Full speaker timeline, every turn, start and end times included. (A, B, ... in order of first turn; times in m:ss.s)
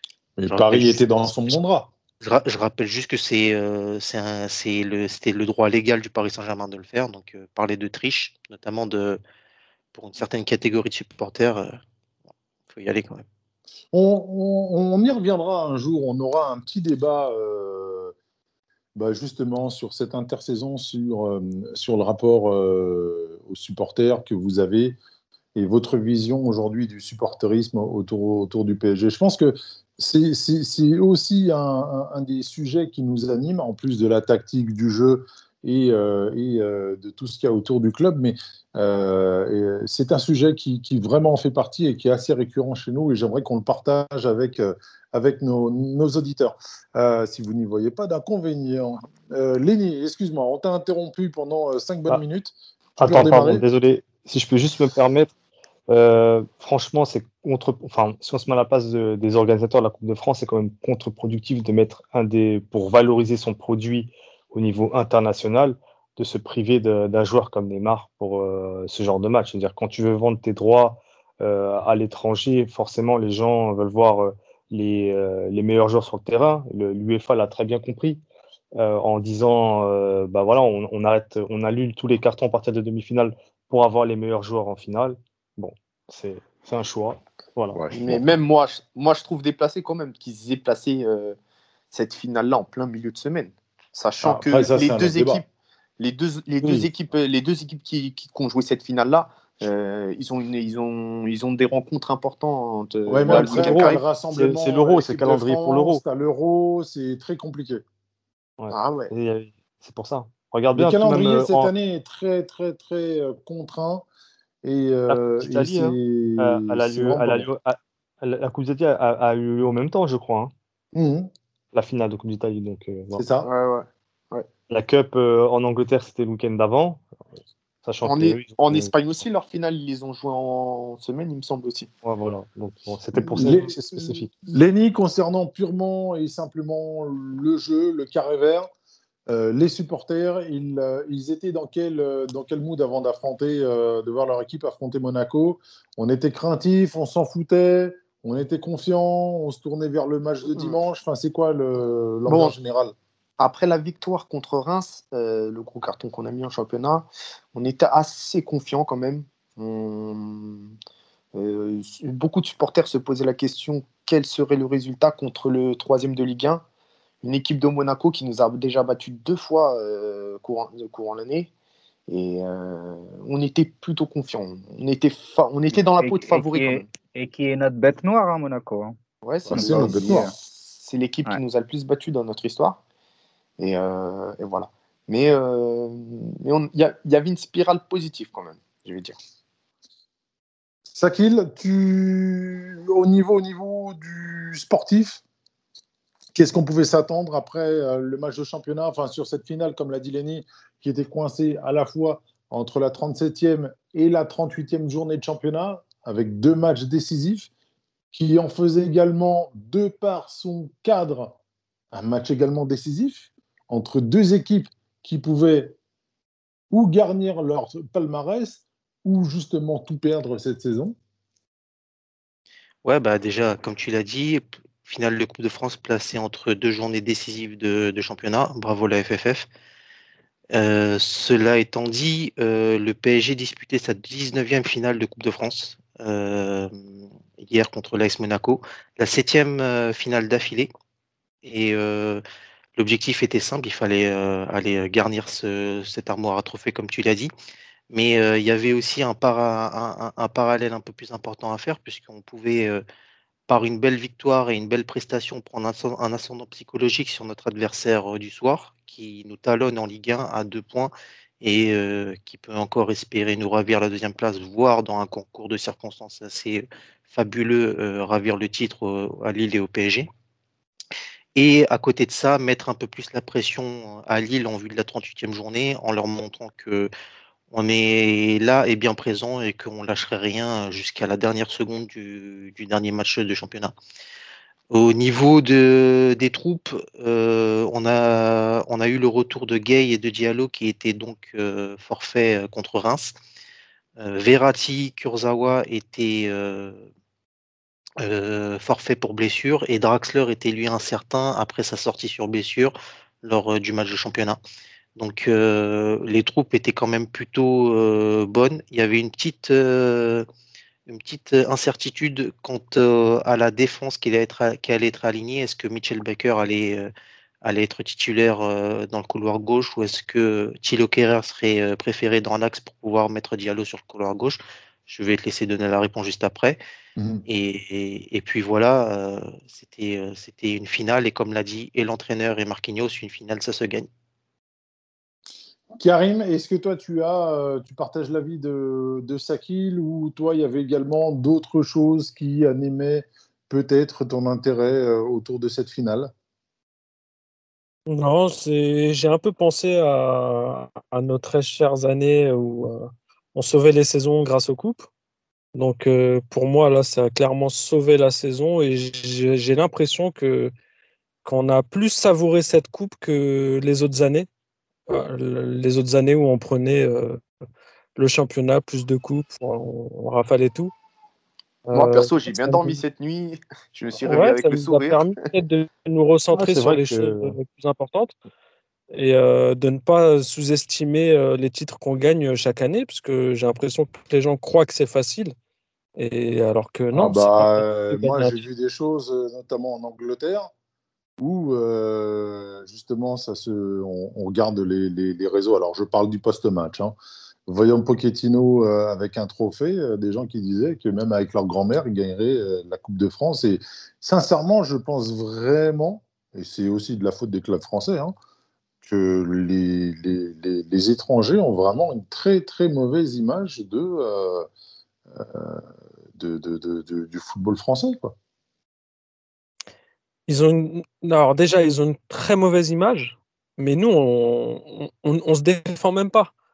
0:00.4-0:01.9 A
0:00.5-0:01.1 B
0:02.2-0:09.2 B
0:09.9-0:11.8 B
0:12.7-0:13.2 B
0:13.9-0:18.1 A
0:19.0-0:25.0 A
0:25.6-0:53.6 A
0:53.0-0:55.3 C
0:55.9-1:18.2 C
1:18.8-1:27.8 C
1:27.7-1:28.2 A
1:27.9-1:31.4 D
1:31.9-1:35.5 D
1:34.2-1:35.4 A
1:36.0-1:44.0 D
1:43.1-1:47.8 A
1:43.3-1:46.0 C
1:48.6-1:51.7 C
1:48.7-1:49.1 D
1:50.8-1:54.1 A
1:54.6-1:57.5 A
1:55.1-2:00.5 C
2:00.9-2:01.3 A
2:01.7-2:03.2 C
2:03.2-2:03.5 A
2:03.4-2:04.5 D
2:04.7-2:07.0 C
2:07.8-2:08.9 C
2:08.0-2:11.9 D
2:12.0-2:14.3 C
2:13.2-2:18.7 A
2:19.3-2:33.0 A
2:32.3-2:32.5 D
2:33.4-2:40.7 D
2:41.4-2:46.6 D
2:47.2-2:51.5 D
2:52.1-2:56.8 D
2:56.0-2:59.0 E
2:59.2-3:02.8 D
2:59.5-3:00.3 A
2:59.5-3:00.3 E
3:03.6-3:09.2 D
3:10.9-3:15.2 A
3:16.4-3:27.5 A
3:28.1-3:31.4 A
3:31.9-3:35.8 A
3:36.7-3:41.0 A
3:42.8-3:49.5 B
3:50.5-3:56.7 B
3:57.4-4:00.7 B
4:01.4-4:02.2 B
4:02.8-4:07.3 B
4:07.9-4:12.8 B
4:13.5-4:30.1 B
4:31.4-4:36.9 B
4:37.5-4:43.7 B
4:44.7-4:53.2 B
4:54.0-4:56.9 B
4:58.0-5:04.4 B
5:05.0-5:10.3 B
5:10.9-5:16.9 B
5:17.4-5:26.6 B
5:27.0-5:27.2 A
5:27.3-5:33.9 B
5:35.8-5:46.1 A
5:47.9-5:54.9 F
5:55.6-6:00.5 F
6:01.2-6:04.3 F
6:04.9-6:07.2 F
6:08.0-6:10.7 F
6:11.7-6:15.1 D
6:12.5-6:12.8 C
6:14.1-6:18.2 F
6:16.3-6:17.4 C
6:18.9-6:25.3 F
6:26.0-6:28.4 F
6:26.9-6:30.5 A
6:31.2-6:48.2 A
6:48.8-6:54.5 A
6:55.1-6:55.6 A
6:56.2-6:58.2 A
7:00.3-7:06.3 F